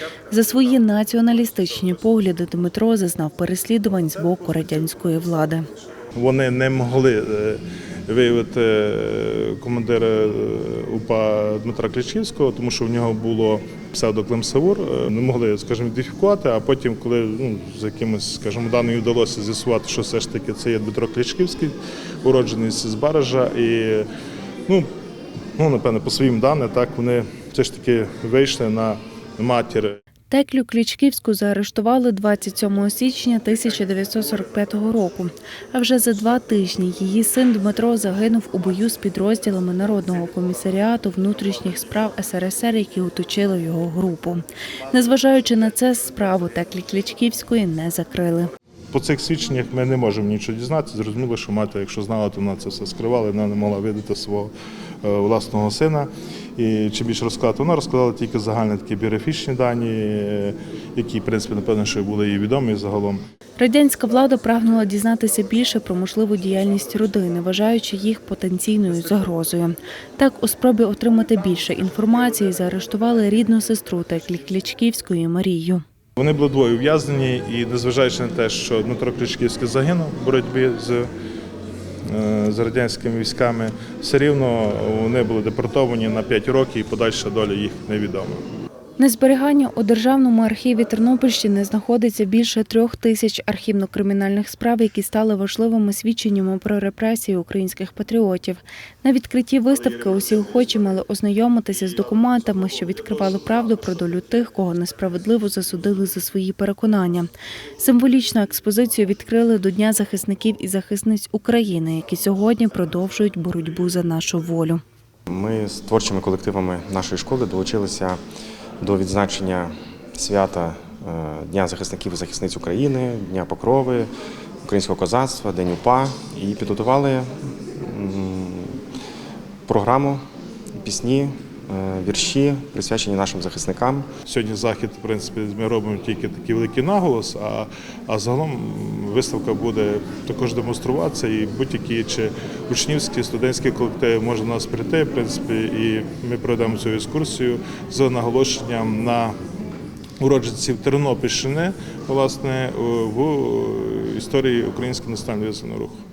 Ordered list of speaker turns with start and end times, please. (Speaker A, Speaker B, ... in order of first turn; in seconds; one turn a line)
Speaker A: 0.3-5.7
Speaker B: 6.2-24.1
Speaker B: 25.6-30.0
Speaker A: 30.3-48.5
Speaker B: 48.9-54.5
Speaker B: 55.0-63.2
Speaker A: 63.6-75.8
Speaker B: 76.2-81.1
Speaker B: 82.0-88.4
Speaker A: 89.0-114.8
Speaker C: 115.3-118.2
Speaker C: 118.8-124.1
Speaker C: 124.6-128.8
Speaker C: 129.7-130.2
Speaker C: 130.8-134.1
Speaker B: 134.3-149.3
Speaker B: 150.2-156.0